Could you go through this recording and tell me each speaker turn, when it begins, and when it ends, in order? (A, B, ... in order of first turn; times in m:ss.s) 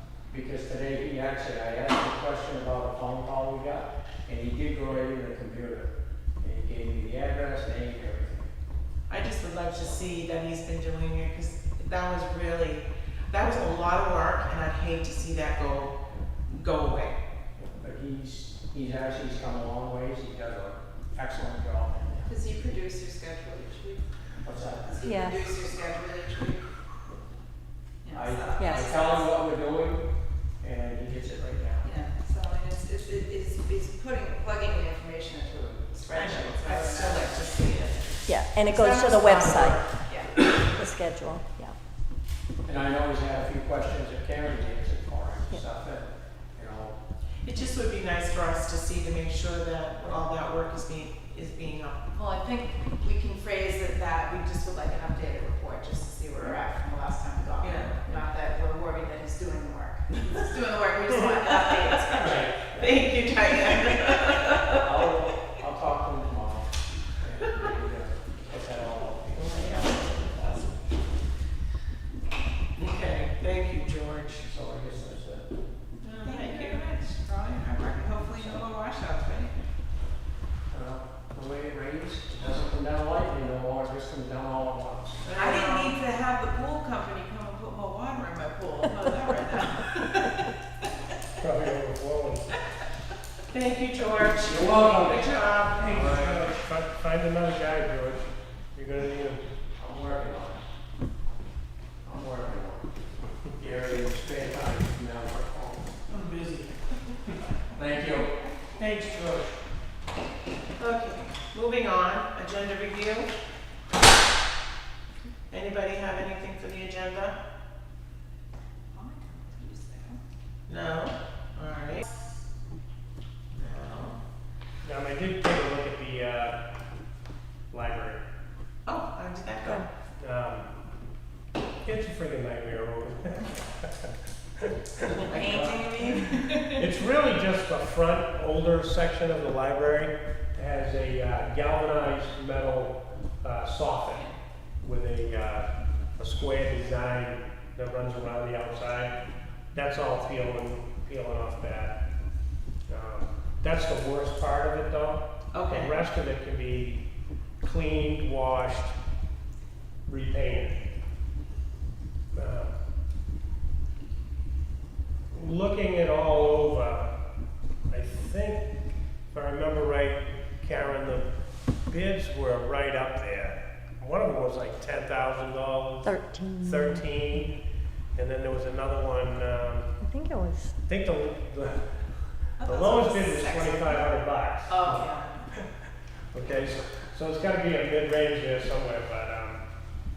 0:00.3-0:08.5 A
0:09.1-0:16.0 B
0:16.5-0:17.2 B
0:17.6-0:22.3 A
0:22.2-0:24.0 C
0:24.4-0:25.1 A
0:24.9-0:26.7 C
0:25.0-0:25.3 D
0:28.0-0:29.3 C
0:28.1-0:30.1 A
0:30.6-0:31.9 A
0:31.8-0:37.8 C
0:36.1-0:39.7 B
0:38.3-0:39.9 D
0:39.0-0:40.3 C
0:40.5-0:41.7 D
0:42.6-0:47.0 A
0:47.4-0:52.1 B
0:52.1-1:02.6 C
0:57.6-0:58.0 B
1:02.1-1:04.7 B
1:02.2-1:03.0 A
1:04.7-1:09.6 A
1:09.3-1:10.8 B
1:12.8-1:14.5 B
1:14.4-1:15.5 A
1:16.0-1:19.5 B
1:16.2-1:17.4 C
1:17.9-1:18.6 C
1:20.7-1:25.2 A
1:25.2-1:26.0 B
1:25.3-1:30.3 C
1:31.4-1:32.5 E
1:33.5-1:36.0 B
1:34.4-1:36.6 A
1:35.8-1:39.4 E
1:39.8-1:40.6 A
1:42.0-1:42.8 A
1:43.6-1:46.7 A
1:47.7-1:49.4 A
1:50.8-1:53.3 B
1:55.5-1:57.4 B
1:58.9-2:00.2 C
2:00.7-2:02.0 B
2:03.5-2:04.2 B
2:04.8-2:06.6 E
2:07.7-2:08.2 E
2:08.8-2:09.8 B
2:10.2-2:10.7 E
2:11.8-2:15.7 E
2:15.2-2:16.2 B
2:15.3-2:16.8 C
2:16.7-2:24.2 E
2:24.8-2:29.1 E
2:29.7-2:32.0 E
2:32.9-2:37.0 E
2:35.5-2:35.9 B
2:37.6-2:39.0 E
2:40.0-2:40.8 E
2:42.3-2:42.7 E
2:45.3-2:47.1 E
2:47.9-2:48.7 E
2:49.3-2:51.3 E
2:51.9-2:57.6 E
2:56.0-2:57.0 D
2:58.2-3:00.0 E
3:00.0-3:00.7 D
3:00.8-3:02.0 E
3:02.6-3:04.0 C
3:02.6-3:05.6 E
3:04.7-3:05.5 C
3:06.3-3:09.6 E